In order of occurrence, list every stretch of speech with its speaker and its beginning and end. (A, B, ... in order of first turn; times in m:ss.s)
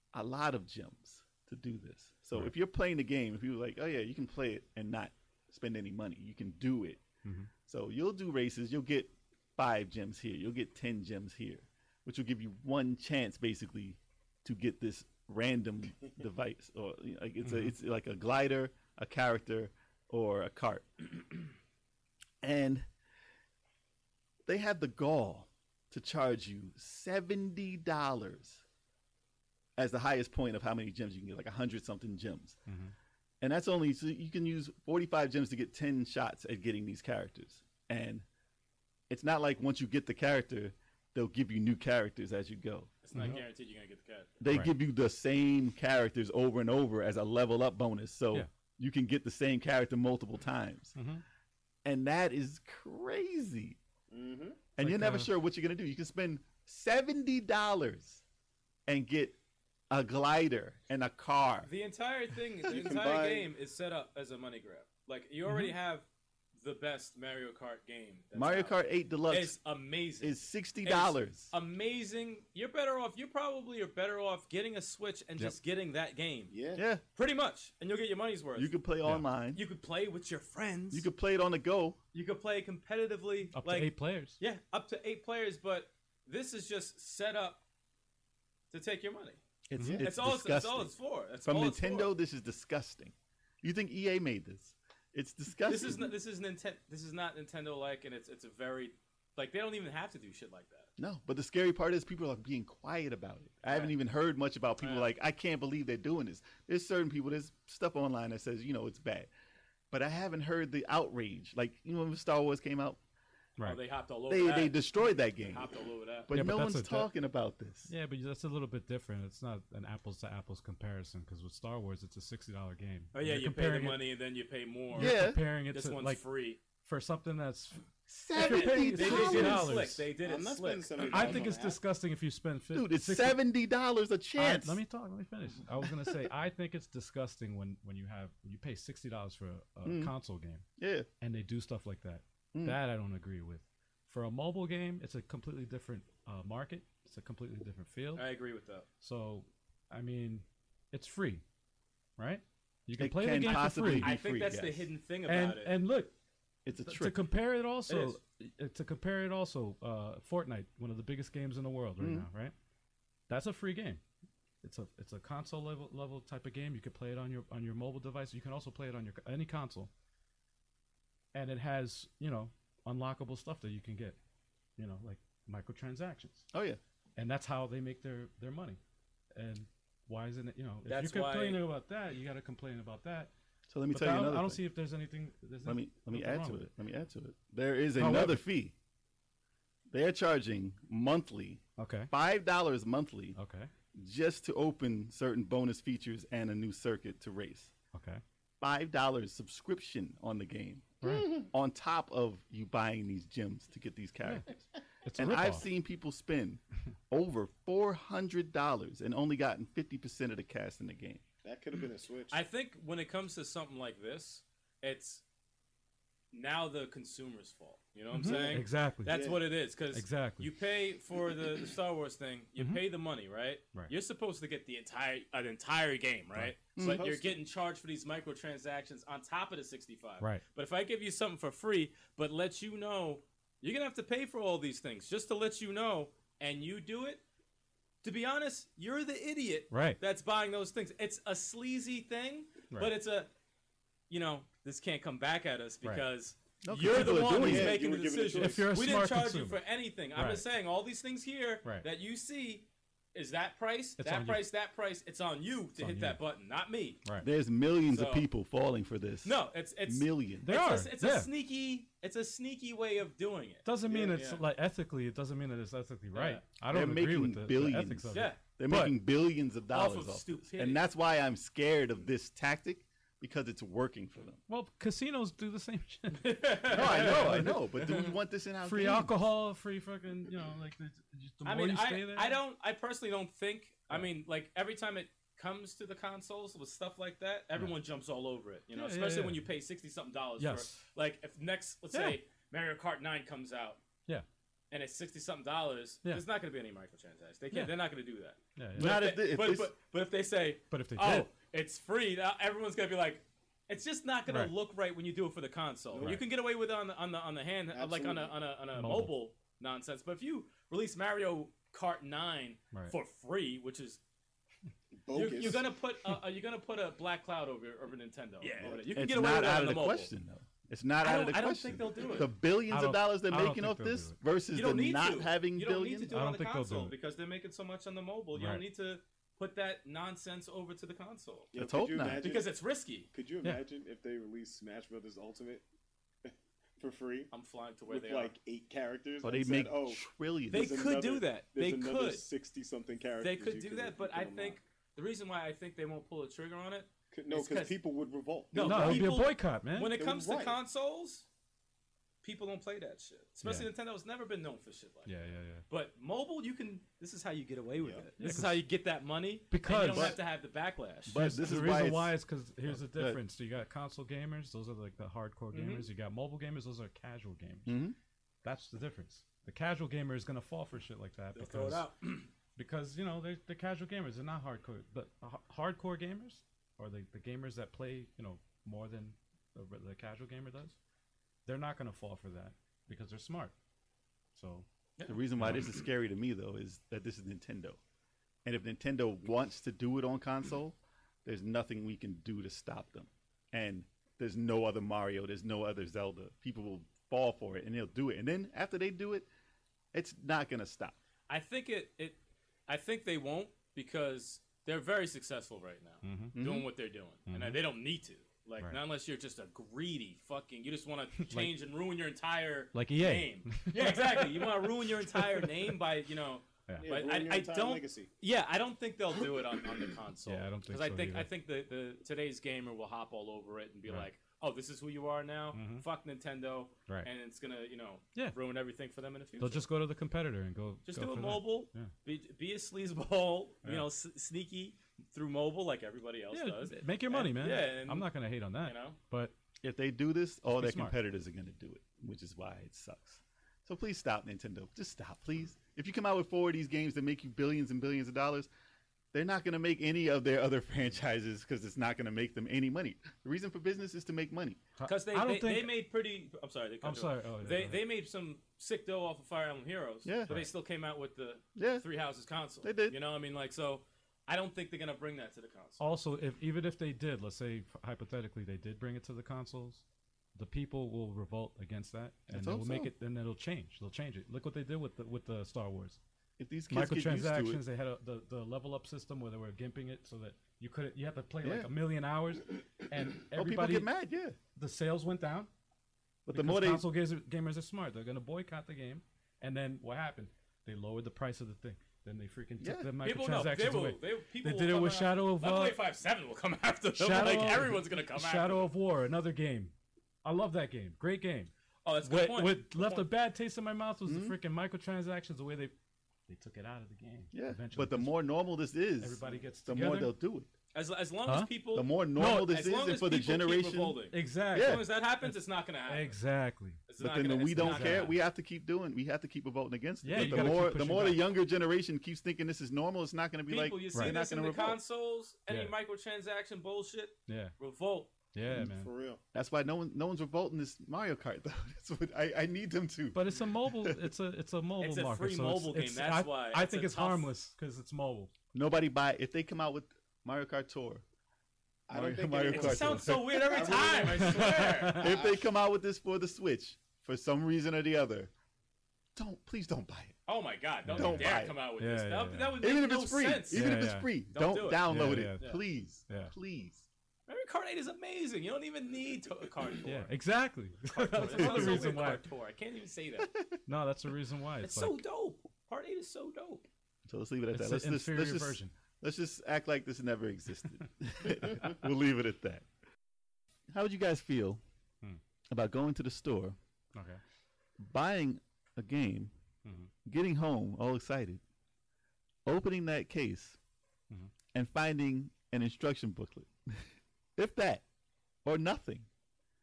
0:00.1-0:07.0 A
0:07.2-0:07.5 B
0:07.7-0:21.4 A
0:17.4-0:17.7 B
0:22.4-0:22.9 A
0:24.5-0:28.6 A
0:29.8-0:32.6 A
0:32.7-0:32.9 B
0:33.4-0:38.2 A
0:39.1-0:42.9 A
0:43.0-0:44.4 C
0:43.1-0:43.4 B
0:44.4-0:51.0 A
0:44.5-0:44.8 B
0:51.0-0:51.2 B
0:51.8-0:53.8 A
0:54.1-0:54.6 D
0:54.8-0:58.2 A
0:54.8-0:55.3 B
0:58.9-0:59.4 A
0:59.9-1:01.7 A
1:01.6-1:06.1 C
1:02.7-1:03.5 D
1:05.5-1:05.8 B
1:06.6-1:08.8 C
1:08.3-1:09.6 A
1:09.3-1:16.5 C
1:10.2-1:11.5 A
1:16.5-1:16.8 D
1:16.8-1:17.0 A
1:17.2-1:18.7 C
1:18.6-1:19.6 A
1:19.5-1:21.1 C
1:20.9-1:22.0 A
1:22.1-1:27.6 C
1:23.5-1:24.4 B
1:28.7-1:29.4 C
1:29.7-1:36.1 A
1:29.8-1:30.0 B
1:30.0-1:32.1 C
1:35.6-1:40.9 C
1:41.0-1:49.3 A
1:43.6-1:44.0 C
1:44.8-1:45.1 C
1:49.9-1:53.0 A
1:53.6-1:56.3 C
1:54.3-1:55.7 A
1:56.3-1:57.9 A
1:56.3-1:57.1 B
1:57.9-2:04.0 B
2:03.1-2:05.2 C
2:04.9-2:06.2 B
2:05.0-2:05.4 A
2:05.7-2:06.6 C
2:06.8-2:07.8 B
2:08.1-2:09.8 A
2:08.4-2:10.1 B
2:08.4-2:11.4 C
2:10.2-2:11.8 D
2:11.1-2:13.4 B
2:12.7-2:14.8 A
2:14.4-2:20.6 B
2:15.8-2:16.2 A
2:19.8-2:20.1 A
2:20.8-2:21.1 A
2:21.2-2:28.3 B
2:28.2-2:28.9 C
2:29.0-2:31.4 B
2:32.2-2:34.1 B
2:33.0-2:34.9 A
2:33.4-2:35.7 C
2:35.3-2:36.1 B
2:36.6-2:37.2 A
2:36.8-2:42.5 B
2:37.9-2:38.2 C
2:42.0-2:42.3 A
2:43.3-2:44.0 B
2:44.6-2:49.9 B
2:51.3-2:54.2 B
2:54.8-2:56.5 B
2:56.5-2:56.8 A
2:57.2-2:58.8 B
2:59.4-3:03.3 B
3:00.8-3:01.6 C
3:03.7-3:04.6 A
3:03.9-3:06.7 B
3:05.6-3:08.7 A
3:08.0-3:08.4 B
3:09.9-3:13.4 A
3:11.8-3:12.1 B
3:13.4-3:13.7 B
3:14.0-3:17.7 A
3:17.9-3:18.2 B
3:18.6-3:31.2 A
3:21.0-3:21.4 B
3:21.0-3:21.5 D
3:25.0-3:25.7 B
3:31.4-3:32.4 D
3:32.3-3:35.2 C
3:36.3-3:57.2 C
3:38.1-3:39.1 B
3:38.2-3:39.4 D
3:39.9-3:40.5 B
3:42.6-3:42.8 B
3:46.8-3:47.0 A
3:46.8-3:47.4 D
3:58.0-4:03.3 C
3:59.7-4:00.0 B
4:04.1-4:17.0 C
4:06.6-4:07.8 A
4:06.9-4:07.3 B
4:07.2-4:08.7 D
4:08.4-4:09.6 B
4:10.2-4:10.5 B
4:14.0-4:14.5 B
4:15.8-4:16.2 B
4:17.2-4:20.5 A
4:17.9-4:18.2 C
4:19.2-4:24.4 C
4:20.4-4:21.3 B
4:23.6-4:29.0 B
4:26.1-4:26.4 C
4:26.7-4:34.4 A
4:28.1-4:28.4 C
4:29.7-4:30.8 C
4:34.5-4:37.6 B
4:36.1-4:38.2 C
4:36.7-4:39.1 A
4:38.6-4:42.4 B
4:41.4-4:53.8 C
4:48.7-4:49.4 B
4:50.4-4:50.8 B
4:54.7-5:14.0 C
4:58.6-4:59.0 B
4:58.8-4:59.7 A
5:00.7-5:01.3 B
5:04.3-5:04.5 B
5:05.9-5:06.2 D
5:07.7-5:08.4 D
5:08.8-5:09.2 B
5:14.9-5:15.6 D
5:15.1-5:20.1 C
5:18.6-5:19.0 D
5:18.9-5:26.1 A
5:21.0-5:22.3 C
5:22.7-5:24.2 B
5:24.5-5:31.5 C
5:26.1-5:26.9 B
5:28.3-5:28.6 B
5:31.5-5:32.5 D
5:31.6-5:32.2 A
5:32.1-5:33.1 C
5:33.1-5:35.6 D
5:36.3-5:37.3 D
5:37.3-5:38.3 C
5:37.9-5:44.6 D
5:39.2-5:40.8 A
5:40.5-5:42.3 C
5:43.2-5:47.8 C
5:47.1-5:49.1 D
5:48.5-5:51.3 C
5:48.6-5:49.9 B
5:49.9-5:50.6 D
5:52.2-5:55.1 C
5:53.4-5:53.7 B
5:55.1-5:55.6 B
5:55.7-6:01.2 C
5:57.8-5:58.1 D
5:58.2-5:58.7 B
5:59.5-6:00.2 B
5:59.9-6:00.2 A
6:01.1-6:03.2 A
6:01.2-6:07.8 B
6:05.5-6:05.9 C
6:07.7-6:08.0 A
6:08.4-6:11.9 B
6:11.4-6:12.3 C
6:12.6-6:20.8 B
6:21.5-6:23.5 B
6:24.4-6:24.7 B
6:25.0-6:25.7 C
6:25.1-6:27.8 A
6:25.4-6:25.6 B
6:28.4-6:39.3 A
6:39.9-6:41.0 A
6:41.3-7:09.7 C
6:46.0-6:46.4 B
6:46.4-6:46.7 A
6:47.3-6:47.6 B
6:51.2-6:51.5 B
6:52.7-6:55.5 B
6:56.8-6:58.1 D
7:00.3-7:01.3 B
7:05.5-7:05.8 B
7:09.4-7:11.9 B
7:10.9-7:18.1 C
7:13.6-7:13.9 B
7:16.3-7:19.3 B
7:18.6-7:19.0 C
7:19.6-7:28.5 A
7:20.5-7:21.0 B
7:29.1-7:34.6 A
7:34.8-7:35.8 B
7:34.9-7:45.8 C
7:36.8-7:37.8 B
7:40.0-7:40.4 A
7:41.6-7:41.9 A
7:42.6-7:43.0 A
7:45.8-7:49.8 B
7:50.4-7:56.0 B
7:52.3-7:52.9 A
7:56.4-7:57.6 A
7:56.7-8:03.9 B
8:01.4-8:01.7 A
8:03.3-8:04.4 A
8:04.6-8:05.5 B
8:06.3-8:06.8 A
8:06.3-8:15.8 B
8:12.6-8:12.9 A
8:13.0-8:18.7 C
8:17.0-8:19.7 B
8:20.2-8:21.5 B
8:21.8-8:23.1 C
8:22.0-8:25.7 B
8:24.1-8:24.4 A
8:26.3-8:28.2 B
8:27.3-8:30.5 A
8:29.0-8:30.1 B
8:30.7-8:36.2 C
8:31.3-8:31.5 B
8:31.7-8:34.0 A
8:32.2-8:32.4 B
8:34.1-8:36.8 B
8:34.5-8:34.9 A
8:36.9-8:38.2 C
8:37.0-8:44.8 A
8:37.6-8:38.1 B
8:40.0-8:41.3 B
8:40.1-8:40.6 C
8:43.5-8:48.1 C
8:45.5-8:45.7 B
8:47.3-8:47.6 B
8:48.3-8:48.9 B
8:48.7-8:49.2 D
8:49.3-8:54.1 A
8:53.1-8:58.3 B
8:54.8-8:57.3 C
8:58.5-9:01.0 A
9:01.9-9:05.5 D
9:01.9-9:03.9 A
9:02.5-9:05.1 C
9:04.2-9:05.1 B
9:04.9-9:08.3 A
9:09.2-9:10.2 A
9:10.3-9:13.8 C
9:10.8-9:12.6 B
9:10.9-9:11.6 A
9:12.6-9:16.9 A
9:13.5-9:14.1 B
9:14.3-9:15.6 C
9:14.9-9:15.5 B
9:17.3-9:20.1 C
9:19.8-9:22.2 B
9:20.9-9:23.3 C
9:21.2-9:21.8 A
9:23.2-9:23.6 A
9:23.7-9:25.0 B
9:24.6-9:26.7 C
9:27.1-9:32.6 A
9:27.5-9:28.7 B
9:33.7-9:34.6 A
9:35.5-9:36.6 A
9:37.0-9:37.2 B
9:37.8-9:39.3 A
9:39.6-9:39.9 B
9:40.0-9:41.4 A
9:42.5-9:43.6 A
9:44.5-9:46.8 A
9:47.4-9:47.8 A
9:48.4-9:49.1 A